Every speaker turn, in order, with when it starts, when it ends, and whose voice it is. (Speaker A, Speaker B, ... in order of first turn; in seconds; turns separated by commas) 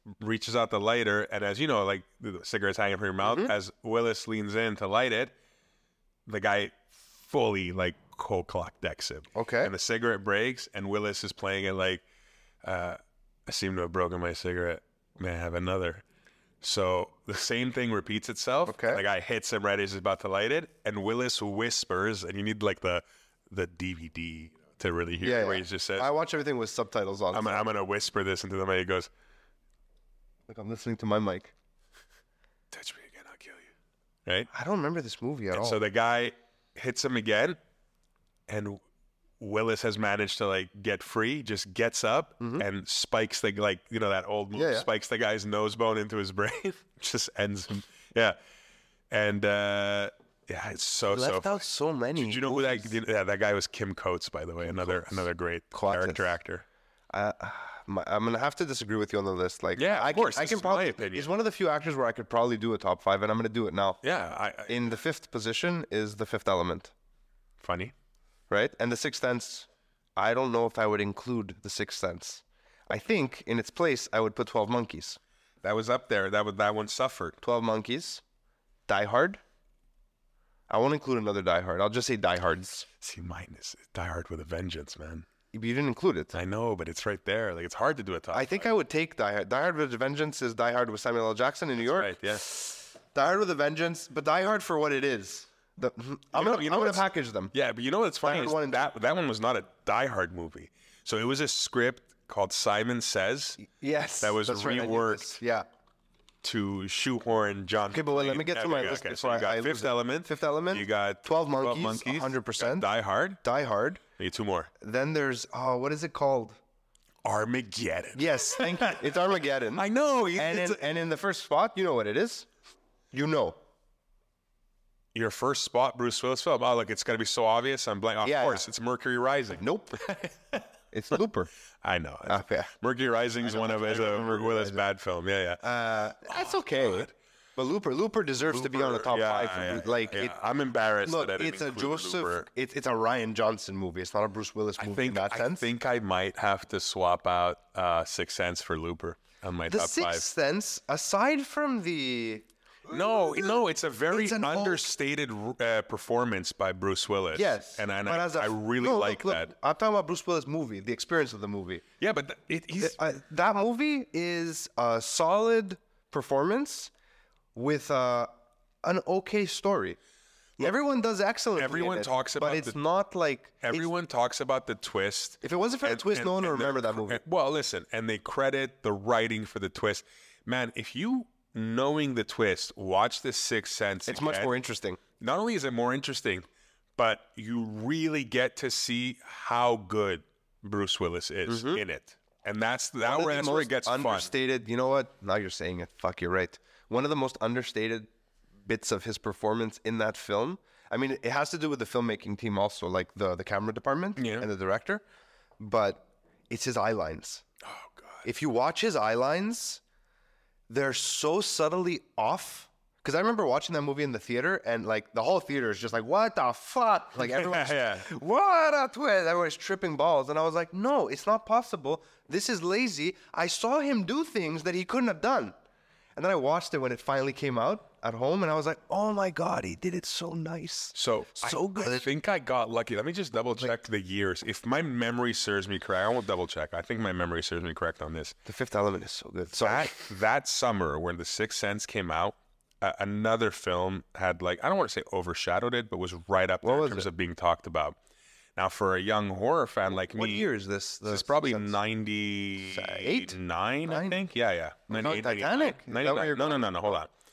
Speaker A: 0.2-5.3, Speaker B: 3.2-3.5, Speaker A: 6.3-12.0, Speaker B: 9.3-9.7, Speaker A: 12.6-16.1, Speaker A: 16.6-26.1, Speaker B: 18.7-19.0, Speaker B: 25.2-27.6, Speaker A: 27.3-29.1, Speaker B: 30.5-31.5, Speaker A: 32.7-33.7, Speaker B: 34.5-35.8, Speaker A: 35.5-37.6, Speaker A: 38.5-38.8, Speaker A: 39.4-48.4, Speaker B: 42.4-42.6, Speaker B: 44.5-44.9, Speaker A: 49.1-51.6, Speaker B: 51.1-52.9, Speaker A: 52.2-56.6, Speaker B: 55.7-56.3, Speaker B: 57.1-64.0, Speaker A: 59.8-61.3, Speaker A: 64.0-64.8, Speaker B: 64.7-66.9, Speaker A: 67.6-67.9, Speaker B: 68.5-75.2, Speaker A: 75.6-77.4, Speaker B: 77.4-78.2, Speaker B: 78.9-79.4, Speaker B: 80.7-82.9, Speaker A: 83.0-85.3, Speaker B: 85.5-86.3, Speaker A: 86.3-88.7, Speaker B: 88.3-97.5, Speaker A: 91.8-92.4, Speaker A: 96.3-103.6, Speaker B: 98.2-98.9, Speaker B: 103.6-105.7, Speaker A: 104.2-105.4, Speaker A: 106.4-113.4, Speaker B: 107.9-112.9, Speaker B: 113.4-114.0, Speaker A: 114.2-114.7, Speaker B: 114.8-116.6, Speaker A: 117.2-119.1, Speaker B: 118.2-119.8, Speaker A: 119.8-120.8, Speaker B: 120.4-122.5, Speaker B: 123.1-123.6, Speaker A: 125.1-130.6, Speaker B: 128.2-128.7, Speaker B: 129.6-130.1, Speaker B: 130.9-131.5, Speaker A: 131.8-135.7, Speaker B: 132.3-132.7, Speaker B: 133.4-134.8, Speaker B: 135.6-140.3, Speaker A: 136.3-137.0, Speaker A: 138.5-142.5, Speaker B: 141.1-145.7, Speaker A: 144.8-150.3, Speaker B: 149.7-153.6, Speaker A: 152.9-159.5, Speaker B: 154.1-154.9, Speaker B: 157.3-161.8, Speaker A: 162.0-163.0, Speaker B: 162.8-166.9, Speaker B: 167.6-168.3, Speaker B: 168.8-170.0, Speaker B: 170.6-173.9, Speaker A: 171.6-172.8, Speaker A: 173.6-184.5, Speaker B: 175.4-177.2, Speaker B: 184.1-185.0, Speaker A: 185.2-194.3, Speaker B: 191.5-191.8, Speaker B: 193.0-198.1, Speaker B: 198.7-205.0, Speaker A: 204.2-204.5, Speaker B: 205.6-207.4, Speaker A: 207.6-208.2, Speaker B: 208.2-209.8, Speaker B: 210.7-225.6, Speaker A: 217.2-218.1, Speaker B: 226.2-232.1, Speaker A: 230.9-238.4, Speaker B: 238.5-239.9, Speaker A: 239.6-248.0, Speaker B: 246.6-247.1, Speaker A: 248.6-250.5, Speaker B: 249.9-251.8, Speaker A: 251.1-257.1, Speaker B: 252.6-254.2, Speaker B: 254.9-257.0